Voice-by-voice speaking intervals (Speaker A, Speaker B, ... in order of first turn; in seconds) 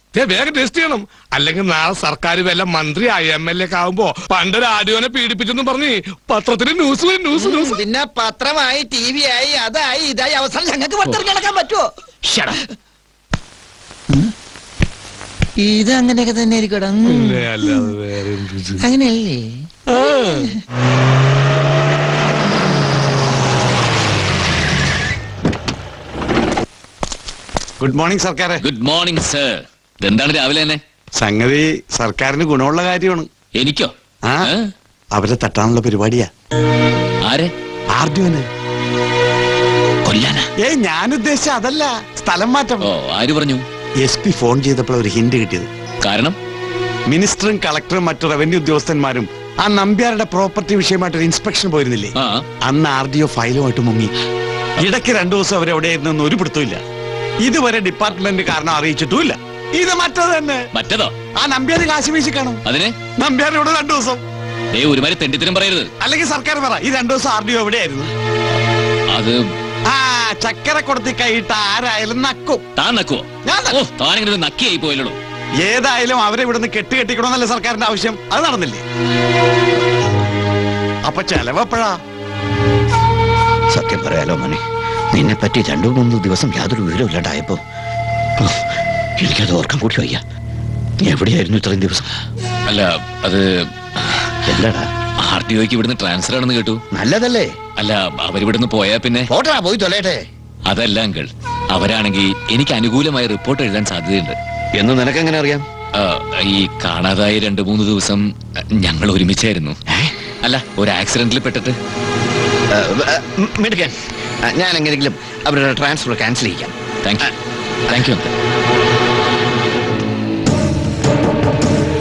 Speaker A: 0.1-7.8, 17.1-18.8, 19.9-20.5
Speaker B: 7.4-11.9, 15.7-17.3, 18.8-19.4
Speaker C: 27.8-28.6, 31.2-33.3, 35.1-36.3, 37.9-38.4, 40.6-42.9, 44.0-45.7, 47.1-52.1, 52.6-54.1, 54.8-56.8, 57.4-60.6, 61.4-62.6, 63.2-64.2, 66.0-68.1, 69.9-72.6, 73.5-73.8, 75.6-78.8, 81.1-82.0
Speaker D: 28.6-30.8, 33.6-34.7, 37.3-37.5, 40.0-40.5, 42.8-43.6, 46.0-46.4, 52.2-52.4, 60.7-61.1, 62.7-63.0, 64.7-65.9, 69.1-69.4, 72.8-75.2, 92.7-93.7, 95.2-96.8, 97.8-99.3, 100.7-104.4, 106.0-109.8, 110.4-111.8, 117.0-117.3, 117.9-118.3
Speaker E: 83.7-84.6, 85.2-87.6, 89.2-90.2, 91.0-92.0, 94.5-94.9, 96.9-97.5, 99.3-100.2, 104.8-105.6, 112.7-116.7